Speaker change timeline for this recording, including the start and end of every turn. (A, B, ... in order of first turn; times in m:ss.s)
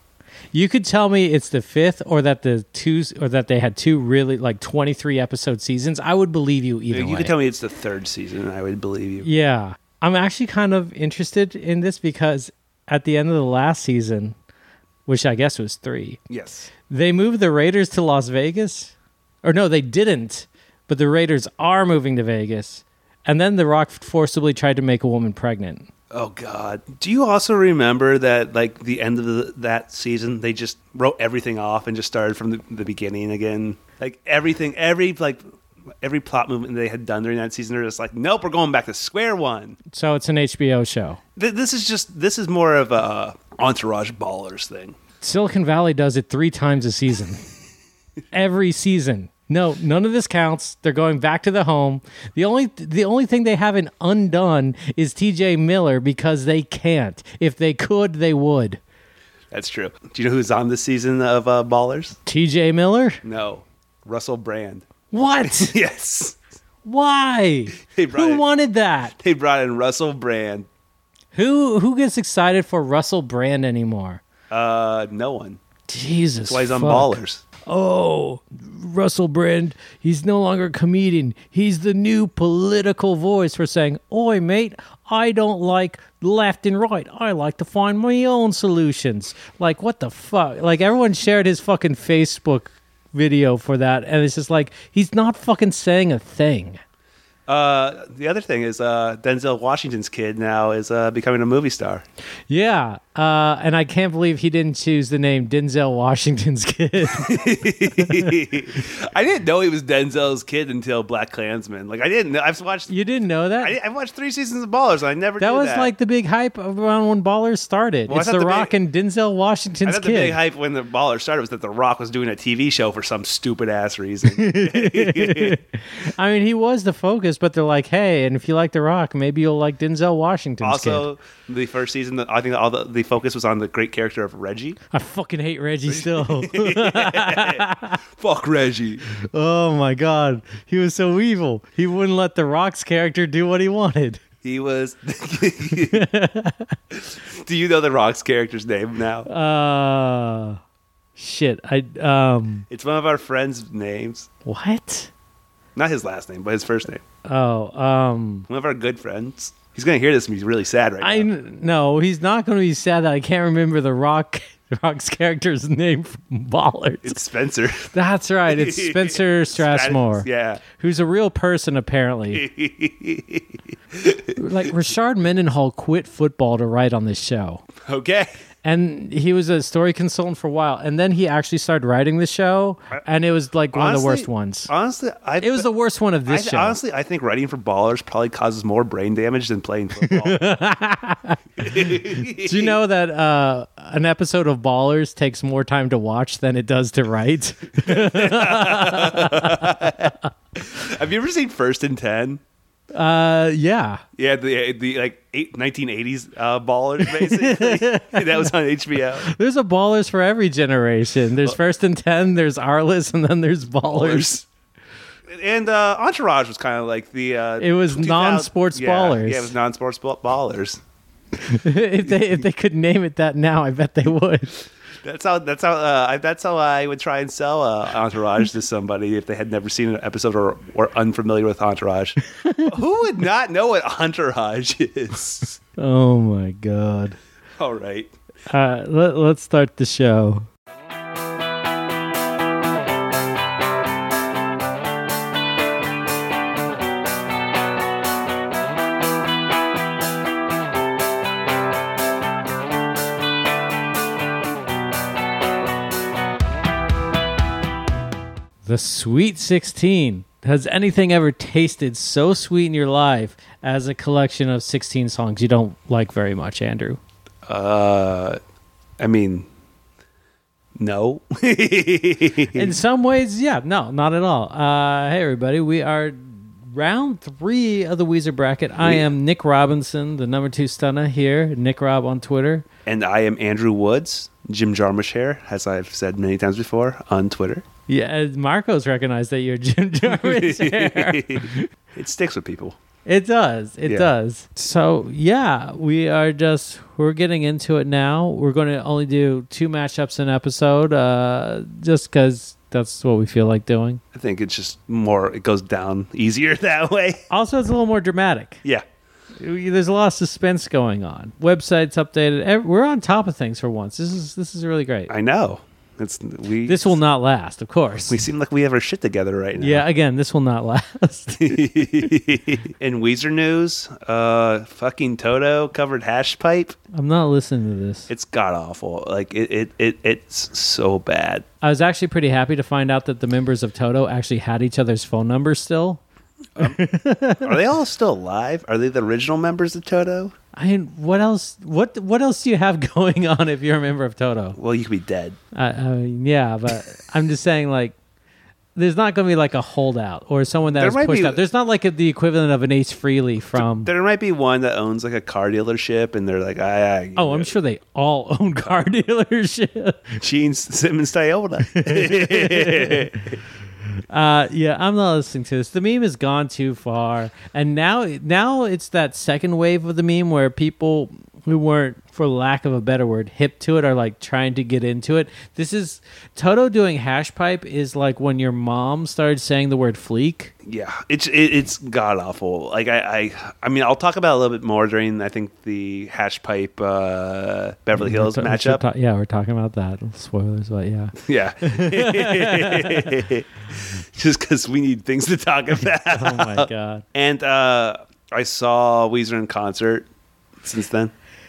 0:00.5-0:07.3 A
0:06.9-0:09.3 B
0:09.2-0:14.4 A
0:15.0-0:16.2 A
0:16.3-0:16.7 B
0:16.8-0:25.9 A
0:26.1-0:35.4 B
0:36.0-0:39.8 B
0:39.9-0:41.2 A
0:41.4-0:45.0 B
0:45.2-0:47.4 A
0:48.3-0:58.8 A
0:59.5-1:02.2 B
1:02.2-1:03.2 A
1:03.2-1:04.9 B
1:05.1-1:05.8 A
1:05.5-1:06.4 B
1:06.8-1:09.1 A
1:07.8-1:08.4 B
1:09.2-1:10.7 B
1:11.3-1:14.2 A
1:14.5-1:15.6 B
1:15.9-1:36.8 A
1:16.4-1:17.4 B
1:37.5-1:42.0 B
1:42.5-1:48.3 A
1:47.1-1:52.9 B
1:52.9-1:53.7 A
1:53.6-1:55.9 B
1:55.4-2:00.4 A
1:58.1-1:58.7 B
1:59.8-2:05.6 B
2:04.3-2:11.1 A
2:10.6-2:14.8 B
2:14.9-2:18.0 A
2:15.9-2:19.1 B
2:19.3-2:24.2 A
2:24.4-2:26.0 B
2:25.8-2:26.8 A
2:26.9-2:29.3 B
2:29.2-2:30.6 A
2:31.2-2:32.7 A
2:32.7-2:34.3 B
2:34.4-2:35.1 A
2:35.8-2:37.0 B
2:37.2-2:38.5 A
2:38.5-2:41.3 B
2:41.0-2:47.2 A
2:47.0-2:47.9 B
2:47.9-2:52.4 A
2:48.5-2:50.6 B
2:52.3-2:54.4 B
2:54.4-2:57.6 A
2:57.8-2:58.3 B
2:58.6-3:04.7 A
3:03.7-3:05.7 B
3:05.4-3:06.8 A
3:06.3-3:10.4 B
3:10.0-3:20.0 A
3:11.6-3:12.8 B
3:17.8-3:22.4 B
3:22.9-3:24.0 A
3:24.2-3:29.3 B
3:27.0-3:28.5 A
3:29.2-3:34.4 A
3:33.9-3:34.4 B
3:35.3-3:40.8 B
3:37.6-3:39.5 A
3:41.4-3:44.5 A
3:42.0-3:42.4 B
3:45.0-3:55.6 B
3:52.3-3:52.7 A
3:55.8-3:57.2 A
3:57.6-3:58.1 B
3:58.5-4:00.5 A
4:18.6-4:27.0 A
4:27.4-4:28.4 B
4:29.0-4:29.5 B
4:30.8-4:32.8 B
4:32.5-4:42.6 A
4:38.8-4:39.1 B
4:42.8-4:47.6 B
4:47.9-4:51.7 A
4:50.0-4:52.8 B
4:53.0-5:04.0 A
5:04.1-5:07.2 B
5:07.3-5:08.6 A
5:09.4-5:15.1 A
5:15.1-5:17.0 B
5:16.6-5:18.2 A
5:18.0-5:19.9 B
5:19.6-5:22.0 A
5:21.4-5:26.8 B
5:26.9-5:28.1 A
5:28.1-5:31.4 B
5:31.6-5:36.0 A
5:36.6-5:37.6 A
5:37.4-5:40.3 B
5:40.5-5:44.6 A
5:44.6-5:45.4 B
5:45.5-5:47.9 A
5:48.7-5:53.9 A
5:50.7-5:51.4 B
5:53.6-5:57.5 B
5:57.2-6:00.2 A
6:00.2-6:03.4 B
6:01.6-6:03.2 A
6:04.1-6:20.5 A
6:20.6-6:28.8 B
6:28.0-6:33.2 A
6:31.2-6:40.0 B
6:35.8-6:37.0 A
6:40.6-6:41.1 B